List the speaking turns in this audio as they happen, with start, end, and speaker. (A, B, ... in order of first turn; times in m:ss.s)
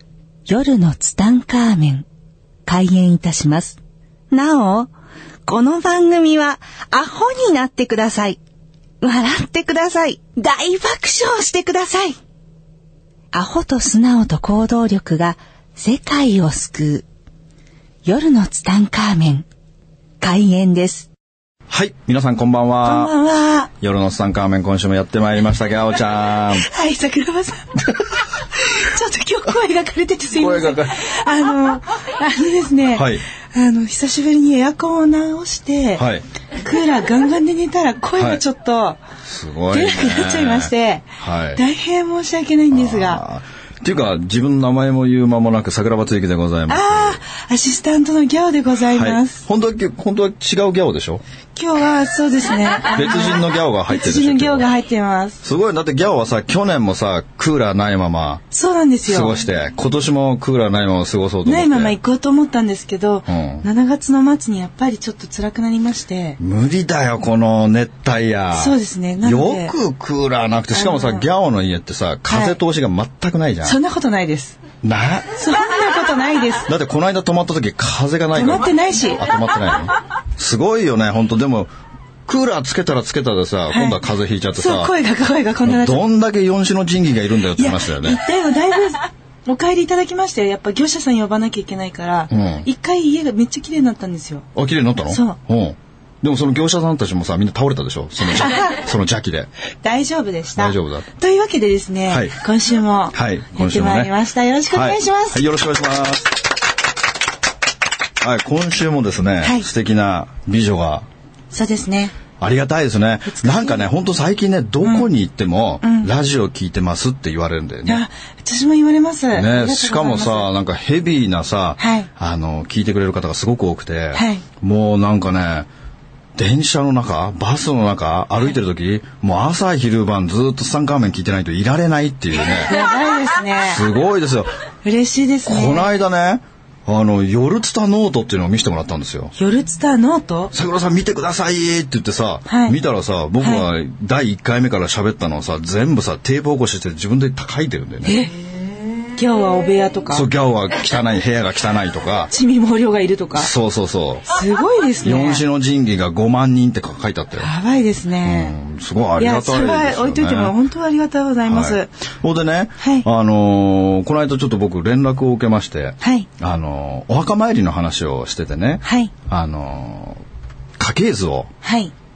0:00.5-0:02.0 A
0:02.6-0:03.8 A
0:04.3-0:04.9 A
0:05.4-0:08.4 A
0:09.0-0:12.2 A
0:13.3-0:17.0 A
0:18.0-0:19.4 A
0:20.2-0:21.1 A
0:21.7-0:23.1 B
0:22.8-0:23.7 A
0:23.8-0:26.7 B
0:26.5-0:27.8 A
0:28.3-0:36.0 A
0:30.3-0:31.0 B
0:32.9-0:33.2 B
0:36.0-0:36.2 B
0:36.6-0:39.0 A
0:38.2-0:38.4 B
0:39.2-0:41.6 B
0:39.7-0:43.2 A
0:42.7-0:47.2 B
0:46.7-0:49.4 A
0:48.9-0:51.2 B
0:51.5-0:55.4 A
0:52.9-0:54.7 B
0:55.4-0:58.4 B
0:58.5-0:59.4 A
0:59.0-1:02.0 B
1:01.4-1:06.4 A
1:03.3-1:03.7 B
1:06.4-1:13.8 B
1:08.5-1:09.7 A
1:10.7-1:11.2 A
1:12.3-1:12.6 A
1:13.6-1:14.6 A
1:14.8-1:15.3 B
1:15.4-1:16.7 A
1:16.7-1:21.7 B
1:18.3-1:19.2 A
1:22.2-1:24.9 B
1:23.7-1:24.0 A
1:24.6-1:26.0 A
1:25.6-1:28.2 B
1:27.6-1:34.5 A
1:32.3-1:32.7 B
1:34.5-1:39.5 B
1:35.1-1:35.4 A
1:38.2-1:38.8 A
1:39.8-1:45.4 A
1:40.5-1:41.0 B
1:42.1-1:42.3 B
1:43.1-1:44.1 B
1:44.7-1:46.4 B
1:48.2-1:51.1 B
1:49.4-1:49.7 A
1:51.5-1:52.1 A
1:52.4-1:58.0 B
1:53.2-1:53.9 A
1:54.8-1:55.1 A
1:55.8-1:56.1 A
1:57.8-2:00.5 A
1:59.3-2:05.7 B
2:01.8-2:02.1 A
2:04.1-2:04.4 A
2:06.4-2:12.8 B
2:12.5-2:13.8 A
2:13.6-2:14.5 B
2:14.8-2:15.9 A
2:15.4-2:19.3 B
2:19.4-2:20.5 A
2:20.5-2:28.2 B
2:22.5-2:22.8 A
2:23.4-2:23.6 A
2:28.0-2:28.3 A
2:29.1-2:30.3 A
2:30.1-2:32.3 B
2:32.3-2:33.5 A
2:33.4-2:34.3 B
2:34.3-2:35.4 A
2:35.0-2:37.5 B
2:37.4-2:38.5 A
2:38.2-2:40.5 B
2:39.2-2:41.9 A
2:41.4-2:50.2 B
2:42.8-2:43.0 A
2:46.0-2:46.3 A
2:48.8-2:49.1 A
2:50.8-2:51.5 B
2:51.6-2:51.9 A